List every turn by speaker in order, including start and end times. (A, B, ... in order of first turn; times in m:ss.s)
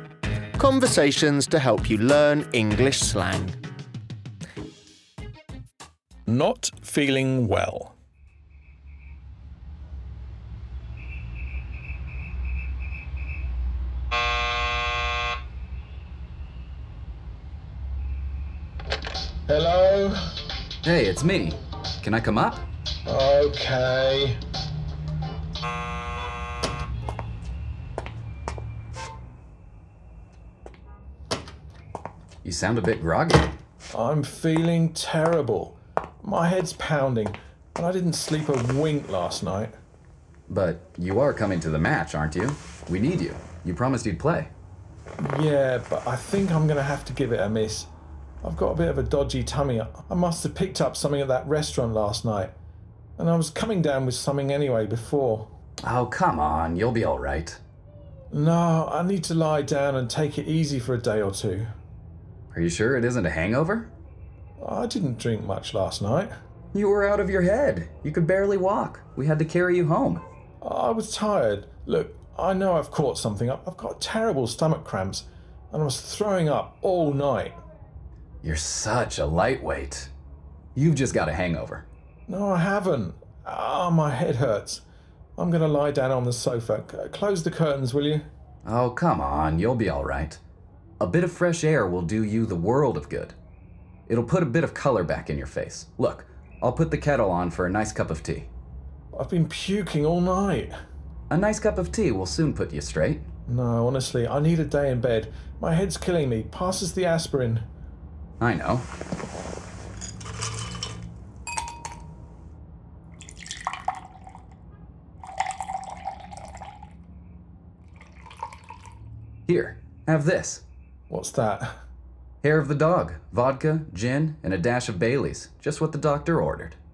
0:00.6-0:03.6 A
0:06.3-0:07.9 B
0:19.5-0:20.3 B
0:20.8-0:22.6 C
0:23.0-0:24.4 B
0:32.4-0:33.5 C
0:33.9-0:39.7 B
0:40.5-0:44.5 C
0:45.2-0:47.9 B
0:48.4-0:52.5 B
0:53.2-0:55.5 B
0:55.8-0:57.6 C
0:58.3-1:01.7 B
1:02.5-1:03.9 C
1:04.6-1:06.3 B
1:06.7-1:10.2 C
1:10.6-1:17.6 B
1:18.4-1:20.1 C
1:20.8-1:21.8 C
1:22.3-1:24.8 B
1:25.4-1:28.2 B
1:28.6-1:30.4 C
1:31.0-1:33.3 C
1:34.1-1:38.5 C
1:39.1-1:40.7 B
1:41.3-1:43.2 C
1:43.5-1:47.6 B
1:48.4-1:48.9 C
1:59.5-2:00.6 C
2:01.1-2:01.7 B
2:02.4-2:06.8 C